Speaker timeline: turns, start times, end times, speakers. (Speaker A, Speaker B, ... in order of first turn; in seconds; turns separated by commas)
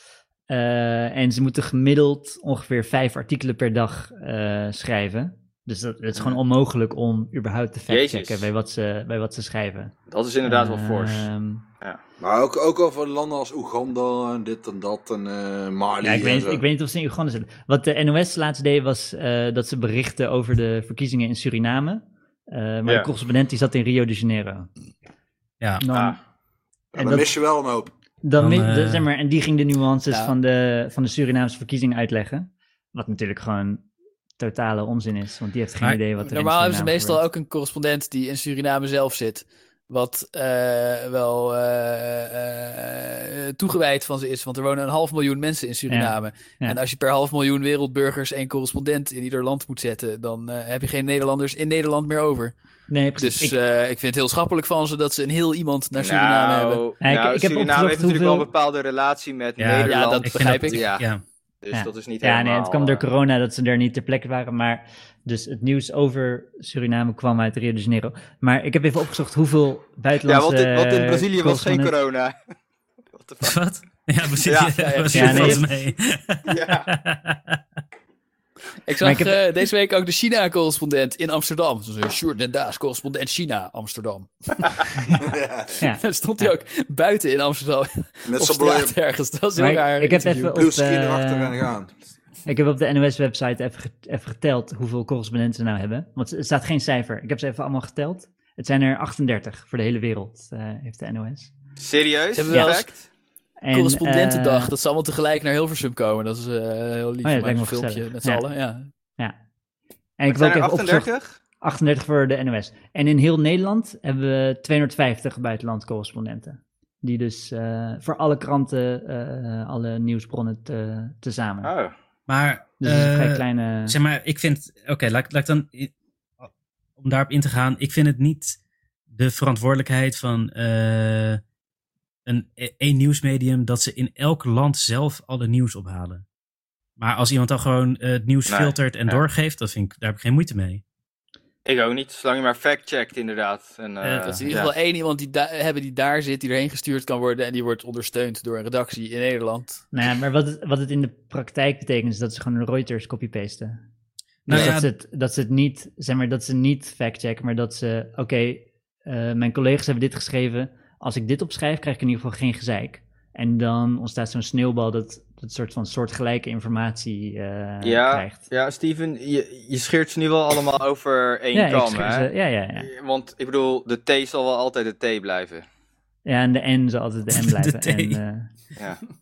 Speaker A: 0.5-9.9, Speaker B: 7.9-8.5, Speaker B: 10.1-11.3, Speaker A: 10.4-11.6, Speaker C: 12.2-16.6, Speaker A: 16.0-24.7, Speaker A: 25.8-26.2, Speaker B: 25.9-26.2, Speaker C: 26.9-27.9, Speaker A: 27.0-27.3, Speaker A: 28.2-33.9, Speaker D: 28.4-29.1, Speaker A: 34.4-37.2, Speaker E: 36.2-52.5, Speaker A: 45.9-46.8, Speaker A: 52.9-53.6, Speaker E: 53.2-56.8, Speaker B: 56.0-61.0, Speaker A: 57.0-58.5, Speaker D: 59.6-61.2, Speaker E: 59.8-60.8, Speaker B: 61.6-63.0, Speaker A: 61.7-71.9, Speaker B: 70.2-72.3, Speaker B: 73.1-73.6, Speaker D: 73.4-77.6, Speaker B: 74.4-75.3, Speaker E: 74.7-75.6, Speaker A: 75.1-75.6, Speaker B: 76.5-76.9, Speaker E: 78.9-85.1, Speaker A: 79.0-79.4, Speaker C: 85.2-85.8, Speaker A: 85.8-86.5, Speaker E: 85.8-90.6, Speaker C: 88.3-88.9, Speaker A: 89.5-91.6, Speaker C: 90.5-91.9, Speaker A: 92.5-101.5, Speaker B: 101.8-103.0, Speaker E: 102.3-102.9, Speaker A: 102.5-102.8, Speaker A: 103.6-104.7, Speaker E: 103.7-108.9, Speaker A: 107.2-108.4, Speaker A: 110.2-111.1, Speaker B: 110.3-111.3, Speaker A: 111.6-121.7, Speaker B: 121.6-121.9, Speaker D: 122.3-128.6, Speaker A: 122.8-124.0, Speaker D: 129.1-131.4, Speaker D: 132.2-136.2, Speaker D: 137.0-140.8, Speaker B: 138.5-139.2, Speaker B: 141.6-144.7, Speaker E: 144.0-149.8, Speaker A: 149.9-153.8, Speaker D: 154.4-154.9, Speaker A: 154.5-168.4, Speaker B: 167.8-175.6, Speaker A: 171.5-172.9, Speaker A: 176.2-178.5, Speaker D: 177.3-178.2